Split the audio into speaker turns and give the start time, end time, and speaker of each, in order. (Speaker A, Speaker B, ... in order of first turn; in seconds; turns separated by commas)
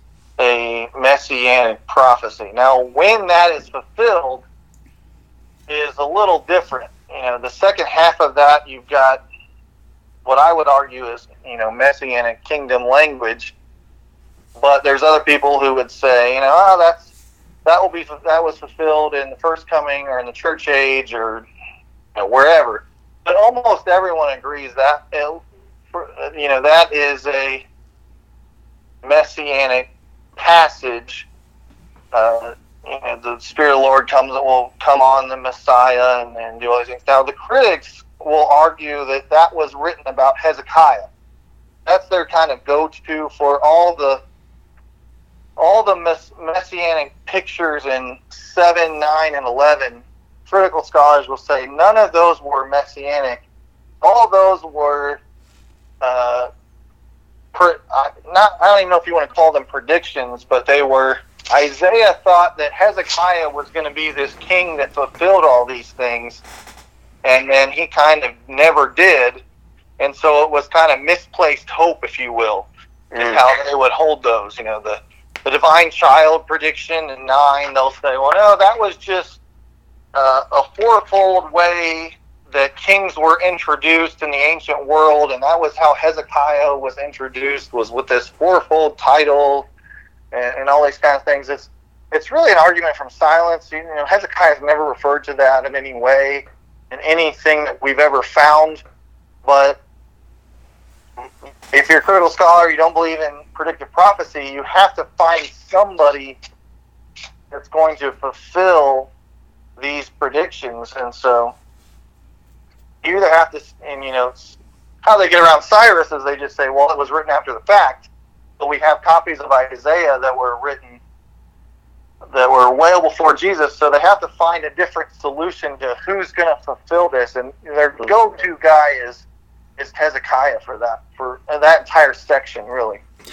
Speaker A: 0.4-4.4, Speaker A: 5.7-9.2, Speaker A: 10.2-13.5, Speaker A: 14.6-17.1, Speaker A: 17.6-21.4, Speaker A: 22.1-27.6, Speaker A: 29.0-31.3, Speaker A: 32.1-41.1, Speaker A: 41.9-44.2, Speaker A: 45.6-53.4, Speaker A: 54.0-55.2, Speaker A: 56.0-56.5, Speaker A: 57.5-66.4, Speaker A: 67.2-69.4, Speaker A: 70.0-79.4, Speaker A: 80.1-89.7, Speaker A: 90.3-98.8, Speaker A: 99.4-99.8, Speaker A: 101.7-106.4, Speaker A: 107.5-109.1, Speaker A: 109.8-111.5, Speaker A: 113.0-121.0, Speaker A: 122.3-129.2, Speaker A: 129.8-133.0